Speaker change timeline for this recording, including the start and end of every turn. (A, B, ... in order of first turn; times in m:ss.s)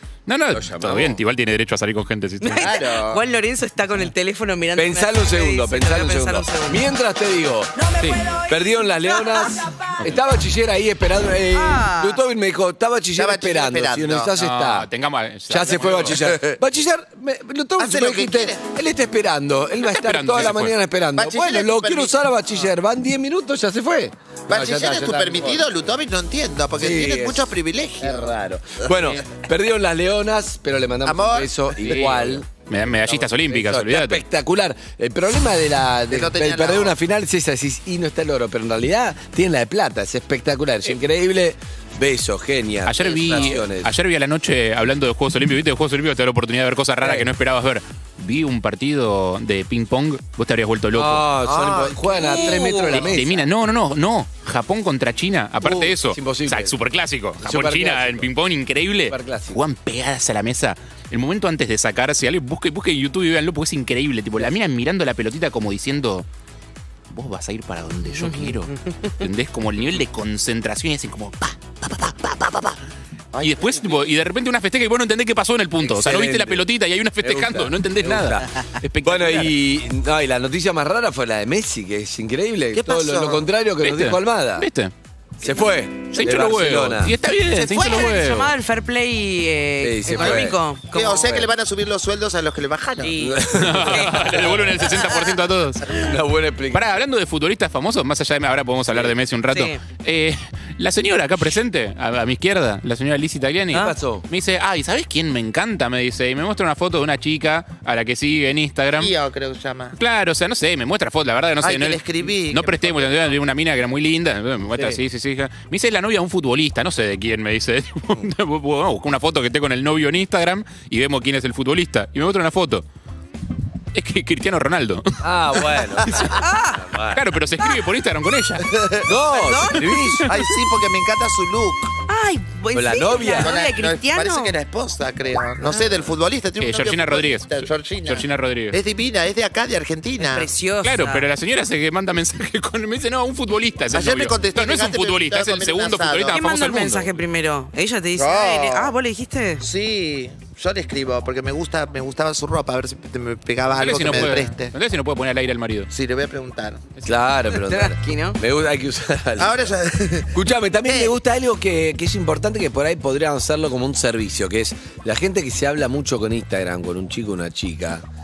0:00.3-0:02.7 A
0:00.5-0:01.2 B
0:02.4-0:06.8 C
0:02.6-0:03.2 D
0:04.8-0:07.8 B
0:08.4-0:14.9 B
0:11.5-0:12.2 C
0:13.2-0:14.3 D
0:14.4-0:16.2 A
0:15.5-0:25.7 B
0:16.2-0:16.6 D
0:17.8-0:18.6 D
0:19.8-0:20.8 A
0:21.2-0:22.6 D
0:24.5-0:29.2 D
0:26.8-0:43.9 B
0:31.0-0:32.1 D
0:31.8-0:34.2 A
0:36.1-0:37.0 D
0:42.9-0:51.3 A
0:47.0-0:47.3 B
0:50.9-0:53.5 B
0:52.1-0:53.0 C
0:52.9-1:06.2 A
0:55.6-0:56.8 B
0:57.4-0:58.3 B
0:59.1-0:59.6 B
1:07.1-1:12.8 A
1:08.2-1:09.1 C
1:13.3-1:14.0 D
1:13.4-1:19.6 A
1:15.8-1:16.7 B
1:17.2-1:18.5 B
1:19.0-1:24.7 B
1:22.7-1:23.4 D
1:23.8-1:24.9 A
1:25.4-1:27.2 B
1:26.1-1:28.5 A
1:27.5-1:31.4 C
1:29.8-1:30.6 B
1:30.9-1:33.2 D
1:33.0-1:34.5 C
1:33.2-1:34.8 B
1:33.6-1:35.9 A
1:35.9-1:36.9 B
1:36.7-1:49.1 A
1:38.9-1:39.2 B
1:39.5-1:39.8 C
1:43.7-1:44.3 B
1:49.0-1:50.0 D
1:50.0-2:02.8 A
1:51.6-1:53.4 D
1:54.7-1:55.0 B
2:03.9-2:06.4 A
2:05.2-2:07.2 B
2:06.3-2:06.8 C
2:07.1-2:08.7 A
2:08.7-2:09.1 D
2:09.0-2:10.3 B
2:09.3-2:10.2 C
2:10.2-2:11.9 D
2:12.1-2:14.5 C
2:12.7-2:13.5 B
2:13.4-2:20.5 D
2:16.6-2:18.8 A
2:20.2-2:21.3 C
2:20.8-2:27.2 A
2:23.9-2:26.4 D
2:26.3-2:29.6 C
2:28.2-2:29.0 D
2:29.6-2:34.7 D
2:33.7-2:35.9 A
2:35.9-2:36.8 D
2:37.0-2:39.8 B
2:37.5-2:38.4 C
2:39.4-2:41.1 D
2:40.3-2:48.0 B